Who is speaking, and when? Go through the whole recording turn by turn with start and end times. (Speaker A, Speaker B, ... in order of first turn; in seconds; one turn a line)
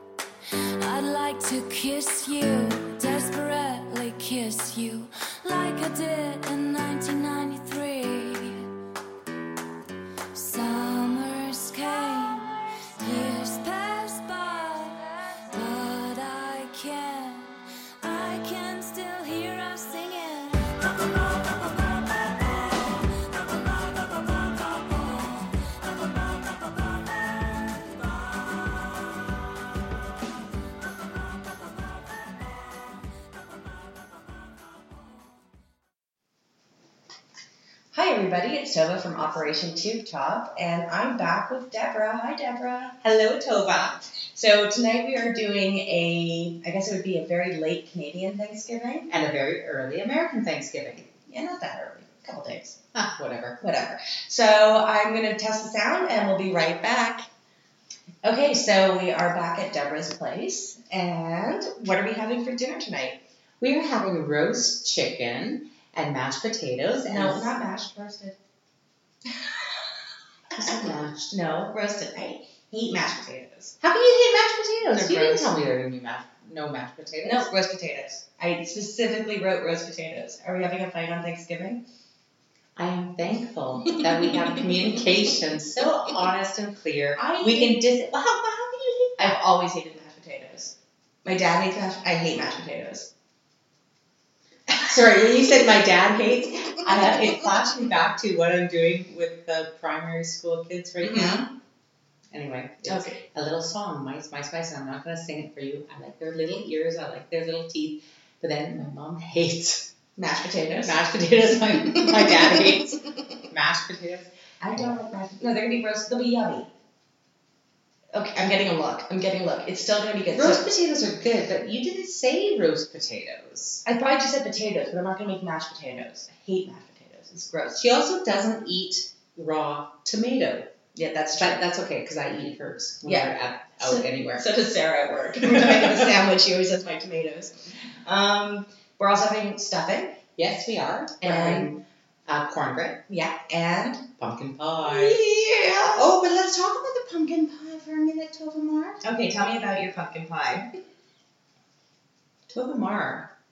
Speaker A: 0.5-8.7
Speaker A: 10.3-25.6
Speaker B: 37.9-43.0
Speaker C: 43.0-44.0
Speaker B: 44.3-49.1
Speaker C: 49.1-51.1
Speaker B: 51.3-52.8
Speaker C: 52.9-53.6
Speaker B: 53.6-57.3
Speaker B: 58.2-63.2
Speaker C: 63.6-67.5
Speaker B: 67.0-68.4
Speaker B: 69.2-69.9
Speaker C: 70.5-71.4
Speaker B: 71.3-73.7
Speaker C: 73.8-77.5
Speaker B: 74.9-75.5
Speaker B: 77.2-81.8
Speaker C: 82.8-89.4
Speaker B: 83.8-85.4
Speaker B: 87.2-87.8
Speaker B: 89.2-93.1
Speaker C: 94.7-101.5
Speaker B: 96.9-97.4
Speaker B: 101.0-101.5
Speaker C: 102.3-109.9
Speaker B: 102.8-103.2
Speaker B: 110.2-112.8
Speaker C: 110.8-115.0
Speaker B: 114.6-116.7
Speaker B: 118.1-120.7
Speaker C: 120.3-123.8
Speaker B: 123.8-127.8
Speaker C: 127.8-130.7
Speaker B: 130.9-131.6
Speaker C: 131.4-134.4
Speaker B: 133.0-140.2
Speaker C: 140.3-143.0
Speaker B: 141.2-141.7
Speaker B: 143.1-144.1
Speaker C: 144.2-145.2
Speaker B: 144.8-146.1
Speaker C: 145.9-149.0
Speaker B: 149.0-150.7
Speaker C: 152.5-153.3